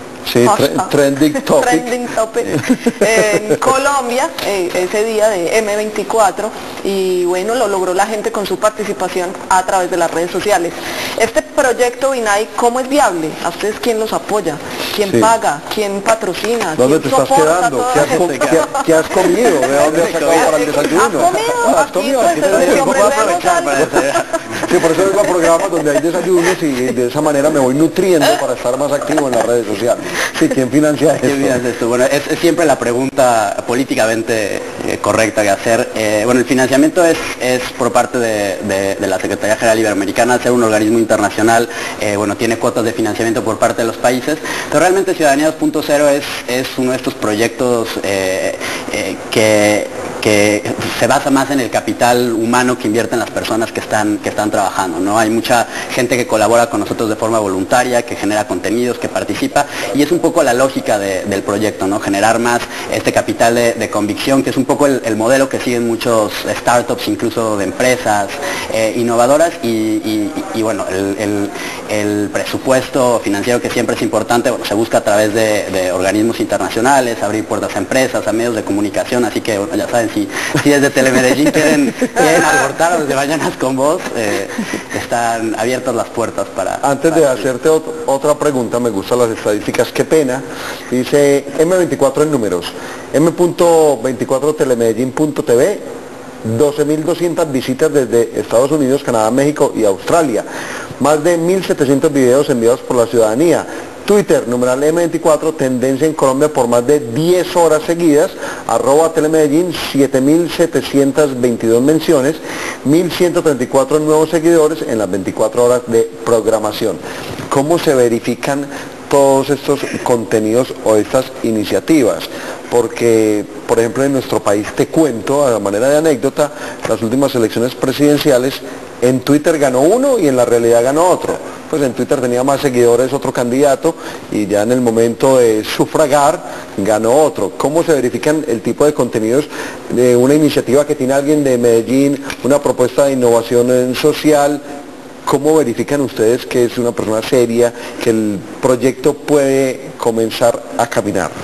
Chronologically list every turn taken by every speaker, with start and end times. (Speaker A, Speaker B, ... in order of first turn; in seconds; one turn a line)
Speaker A: 0.2-1.9
Speaker B: 0.4-24.4
Speaker A: 16.8-23.9
Speaker C: 17.9-18.7
Speaker C: 19.7-21.1
Speaker C: 22.3-24.6
Speaker A: 24.6-31.6
Speaker C: 31.2-87.5
Speaker A: 86.8-95.8
Speaker A: 96.4-100.5
Speaker A: 101.0-144.6
Speaker A: 145.2-151.3